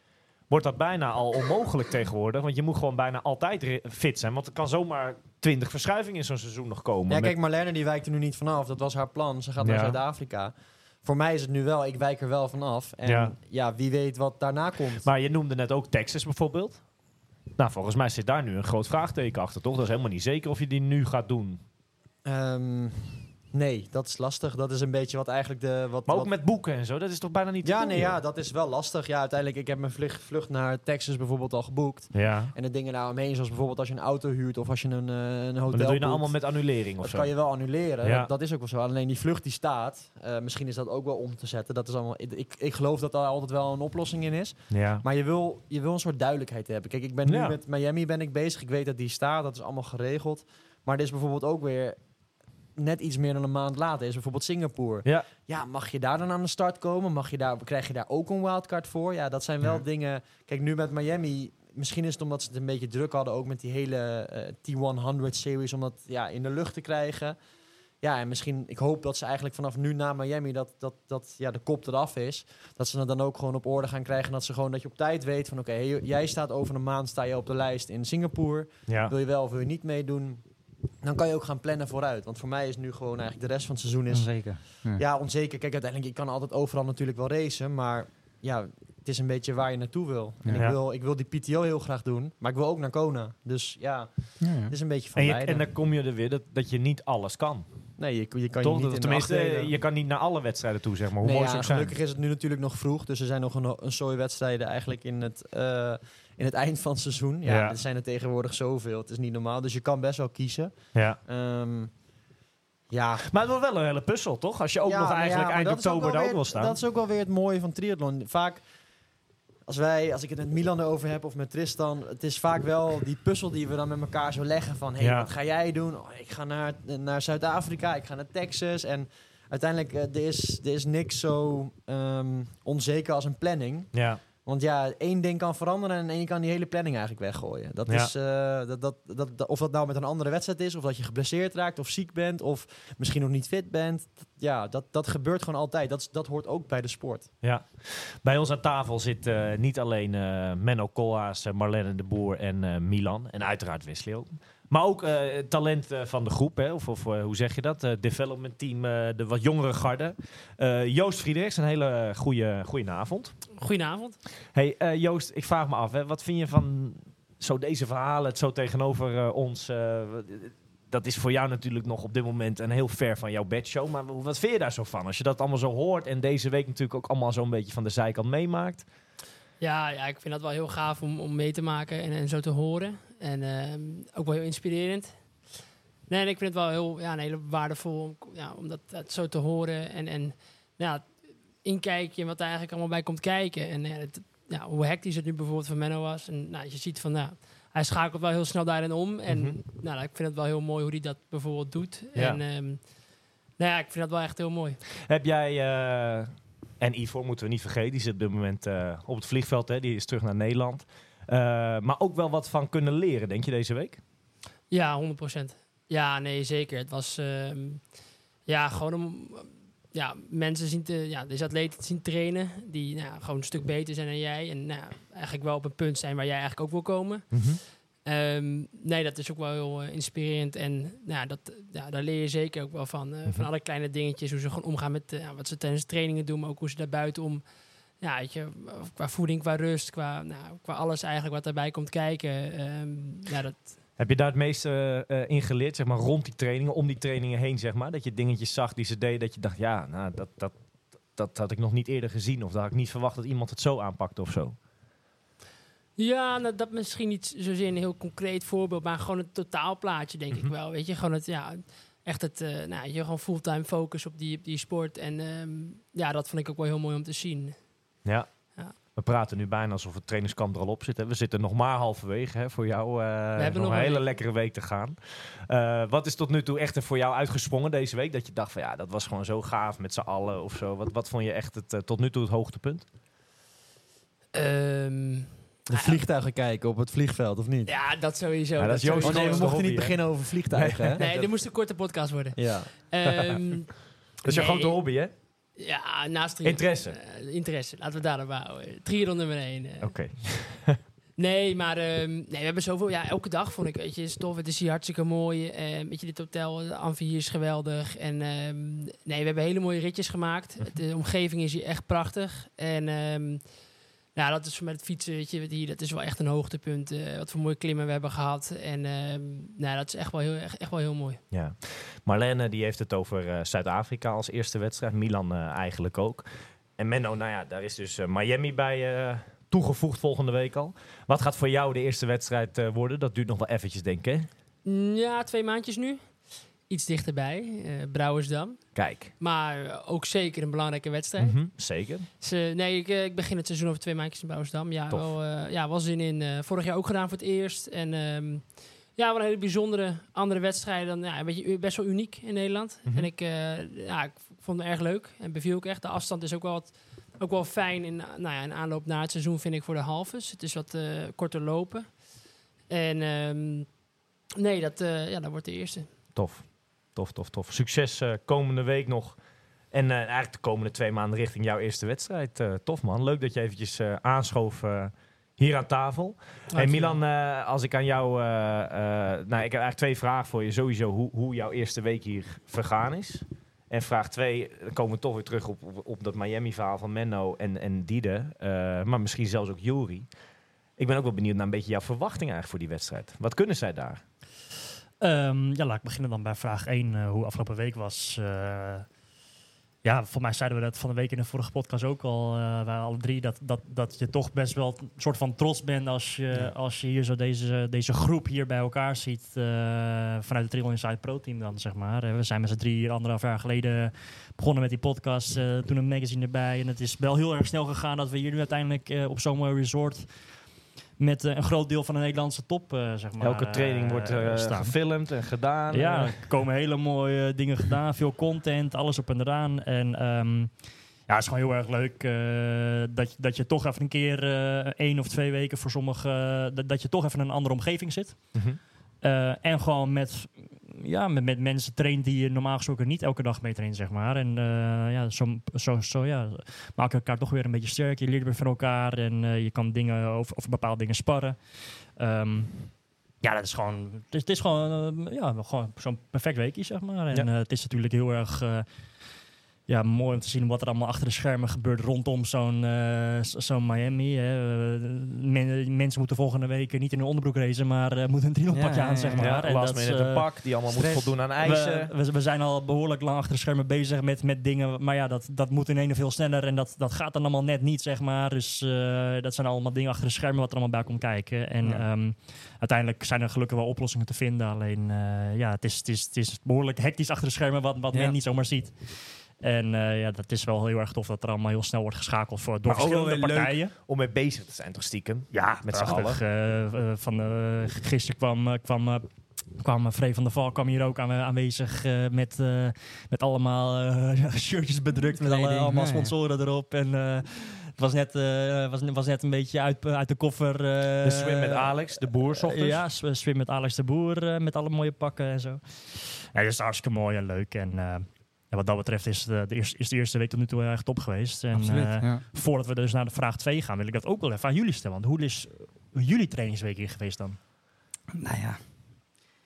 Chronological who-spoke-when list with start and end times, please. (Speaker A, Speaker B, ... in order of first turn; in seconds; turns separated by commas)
Speaker A: 0.5-7.3, Speaker B: 7.1-15.1, Speaker A: 9.6-10.0, Speaker A: 13.0-13.3, Speaker A: 15.0-16.9, Speaker A: 17.5-21.6, Speaker B: 22.2-26.3, Speaker A: 26.1-28.2, Speaker B: 27.6-52.0, Speaker A: 32.1-32.5, Speaker A: 35.7-37.5, Speaker A: 38.0-38.3, Speaker A: 44.7-45.0, Speaker A: 47.2-47.6, Speaker B: 52.8-67.4, Speaker B: 68.0-80.4, Speaker A: 78.9-79.1, Speaker B: 81.0-95.6, Speaker C: 84.1-85.0, Speaker C: 90.4-90.7, Speaker C: 94.4-94.7, Speaker A: 95.1-98.0, Speaker B: 98.0-99.7, Speaker A: 98.6-101.9, Speaker B: 101.2-111.9, Speaker A: 107.5-107.8, Speaker A: 110.9-111.2, Speaker B: 112.9-113.2, Speaker A: 113.2-116.8, Speaker B: 114.8-118.7, Speaker B: 119.7-147.3, Speaker A: 125.0-125.3, Speaker A: 133.9-134.2, Speaker A: 137.9-138.1, Speaker A: 147.4-163.6, Speaker D: 163.6-164.2, Speaker A: 164.5-178.8, Speaker D: 179.6-185.5, Speaker D: 186.1-203.0, Speaker A: 199.3-199.6, Speaker A: 202.1-202.4, Speaker D: 203.6-204.8, Speaker A: 205.0-214.0, Speaker D: 214.7-243.8, Speaker A: 227.3-227.6, Speaker A: 244.0-254.6, Speaker D: 256.0-268.7, Speaker A: 268.0-282.9, Speaker D: 273.4-274.1, Speaker D: 284.3-286.0, Speaker B: 285.7-287.7, Speaker D: 287.6-289.8, Speaker A: 288.6-291.3, Speaker B: 288.9-291.1, Speaker D: 291.0-295.0, Speaker B: 292.4-292.9, Speaker A: 294.2-295.1, Speaker D: 295.5-299.9, Speaker A: 296.4-297.0, Speaker A: 299.8-300.8, Speaker D: 301.2-321.2, Speaker A: 321.3-334.3, Speaker D: 334.6-362.1, Speaker A: 338.7-339.1, Speaker A: 341.2-342.1, Speaker A: 344.9-345.1, Speaker A: 352.8-353.1, Speaker D: 362.7-363.8, Speaker D: 364.4-365.9, Speaker A: 366.1-390.1, Speaker D: 376.5-377.0, Speaker A: 390.8-394.0, Speaker E: 395.0-398.9, Speaker E: 399.8-425.0, Speaker A: 423.2-426.3, Speaker E: 425.7-493.7, Speaker A: 438.3-438.6, Speaker C: 468.5-469.4, Speaker A: 469.2-471.9, Speaker C: 481.6-481.9, Speaker C: 487.9-488.2, Speaker A: 492.6-496.2, Speaker E: 495.3-511.8, Speaker C: 505.2-506.1, Speaker A: 511.0-512.9, Speaker E: 512.3-527.4, Speaker C: 521.5-522.2, Speaker C: 528.1-529.1